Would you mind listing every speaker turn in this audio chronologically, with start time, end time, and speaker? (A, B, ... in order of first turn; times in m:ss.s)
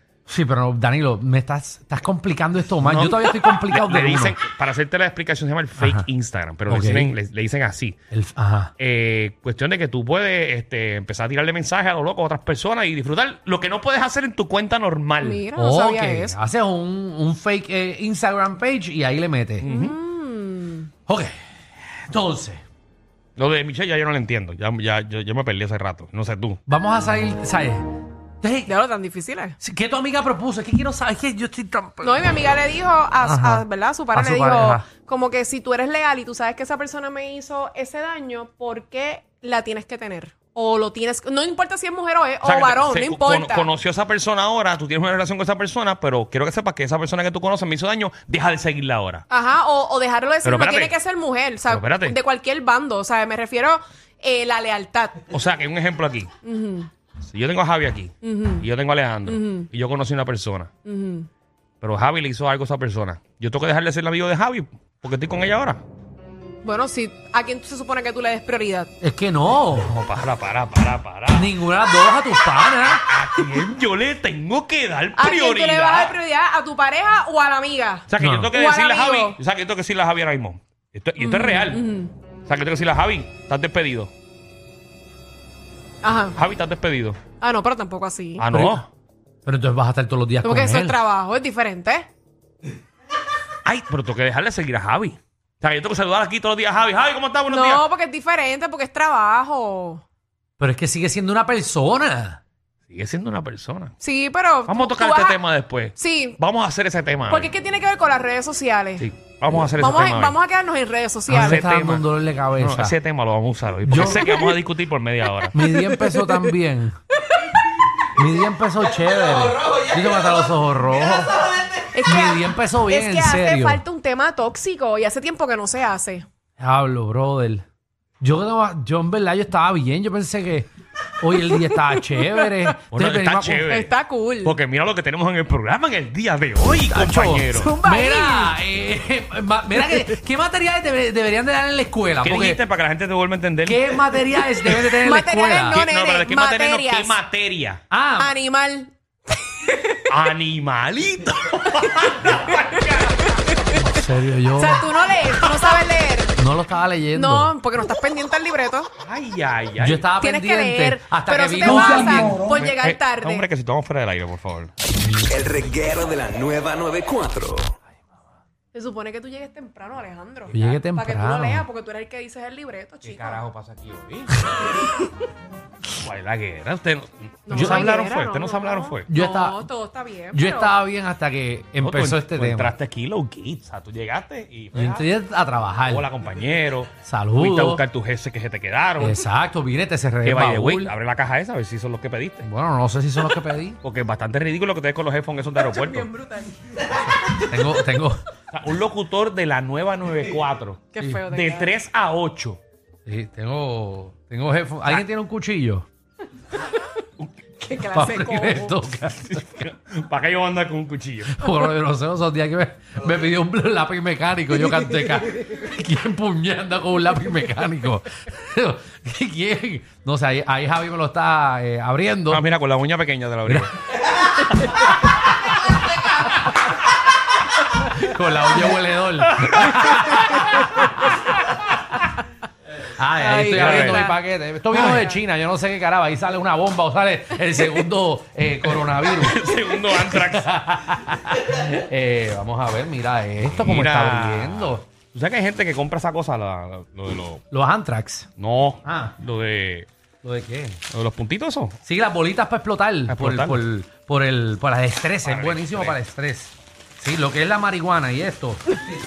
0:00.3-0:04.4 A
0:02.8-0:08.0 B
0:05.8-0:06.1 A
0:06.7-0:07.2 A
0:08.1-0:08.7 A
0:08.8-0:15.4 B
0:15.2-0:16.4 C
0:15.6-0:19.7 A
0:19.6-0:20.0 B
0:19.6-0:20.9 C
0:21.1-0:21.4 A
0:22.1-0:22.6 A
0:23.4-0:26.6 B
0:26.7-0:27.9 A
0:28.4-0:28.7 A
0:28.7-0:29.6 C
0:29.6-0:32.4 A
0:32.0-0:43.7 C
0:33.2-0:34.8 A
0:42.4-0:49.2 B
0:49.3-0:55.2 C
0:50.4-0:51.0 B
0:51.6-0:52.2 B
0:55.3-0:56.3 B
0:56.4-0:56.9 C
0:57.2-1:00.7 B
0:58.2-0:58.6 C
0:59.2-0:59.7 C
1:00.8-1:01.3 C
1:01.8-1:05.8 B
1:06.6-1:08.9 C
1:09.0-1:10.0 A
1:09.8-1:11.5 B
1:11.3-1:13.0 A
1:12.9-1:16.1 B
1:15.2-1:19.4 C
1:18.1-1:21.8 B
1:18.2-1:18.5 A
1:21.2-1:22.1 C
1:22.5-1:24.1 B
1:26.0-1:26.4 C
1:26.4-1:27.2 B
1:27.4-1:28.7 C
1:28.4-1:28.9 B
1:28.5-1:28.8 A
1:29.4-1:31.0 A
1:30.4-1:32.1 C
1:33.6-1:37.9 B
1:37.5-1:40.0 C
1:40.6-1:42.4 A
1:42.9-1:43.9 B
1:44.0-1:45.4 C
1:44.6-1:47.5 B
1:46.0-1:46.4 C
1:47.3-1:49.1 C
1:49.0-1:50.4 B
1:49.7-1:51.6 C
1:51.3-1:53.0 A
1:51.3-1:55.6 B
1:53.8-1:54.2 A
1:55.5-1:57.0 A
1:55.6-1:56.4 C
1:58.1-2:01.5 A
2:01.9-2:06.2 C
2:02.0-2:03.8 A
2:06.6-2:07.6 A
2:08.2-2:13.7 A
2:11.5-2:12.8 C
2:12.9-2:17.7 B
2:13.7-2:14.6 C
2:16.9-2:22.6 A
2:17.5-2:18.6 C
2:22.2-2:25.0 B
2:23.6-2:25.8 A
2:25.0-2:27.2 C
2:25.6-2:27.8 B
2:27.9-2:28.4 A
2:28.2-2:30.0 C
2:30.1-2:33.4 B
2:32.0-2:32.4 C
2:33.3-2:34.0 C
2:33.8-2:34.9 A
2:34.5-2:36.4 C
2:36.4-2:37.5 A
2:37.1-2:38.9 C
2:39.0-2:40.1 B
2:39.8-2:42.5 A
2:40.2-2:43.5 C
2:42.4-2:44.7 B
2:45.0-2:45.4 A
2:45.3-2:47.7 D
2:48.7-2:53.4 C
2:50.5-2:50.8 B
2:50.5-2:51.6 A
2:53.0-2:54.7 B
2:56.0-2:59.1 B
2:57.5-3:00.8 C
2:57.5-2:57.9 A
2:59.1-2:59.6 A
3:00.3-3:02.7 A
3:01.8-3:05.1 B
3:04.7-3:06.1 A
3:05.8-3:09.2 B
3:07.1-3:07.8 A
3:09.0-3:10.9 A
3:10.2-3:12.5 B
3:12.4-3:13.8 A
3:13.8-3:16.1 B
3:15.6-3:17.4 C
3:17.4-3:18.2 A
3:18.5-3:22.6 B
3:20.9-3:21.7 C
3:23.1-3:25.9 A
3:27.6-3:28.8 C
3:27.9-3:29.4 A
3:29.2-3:31.4 B
3:31.3-3:42.4 A
3:34.6-3:35.6 C
3:42.3-3:43.8 B
3:43.5-3:45.0 A
3:48.0-3:51.1 A
3:49.4-3:49.9 B
3:50.2-3:51.3 C
3:52.9-3:59.4 A
3:53.2-3:54.2 C
3:53.5-3:54.1 B
3:54.7-3:55.2 C
3:58.7-4:00.5 B
3:59.9-4:04.9 A
4:03.4-4:07.4 B
4:07.5-4:08.3 A
4:08.4-4:09.9 B
4:08.8-4:09.2 A
4:10.2-4:10.8 A
4:10.9-4:11.8 B
4:11.9-4:18.8 A
4:13.1-4:13.6 B
4:15.2-4:16.0 B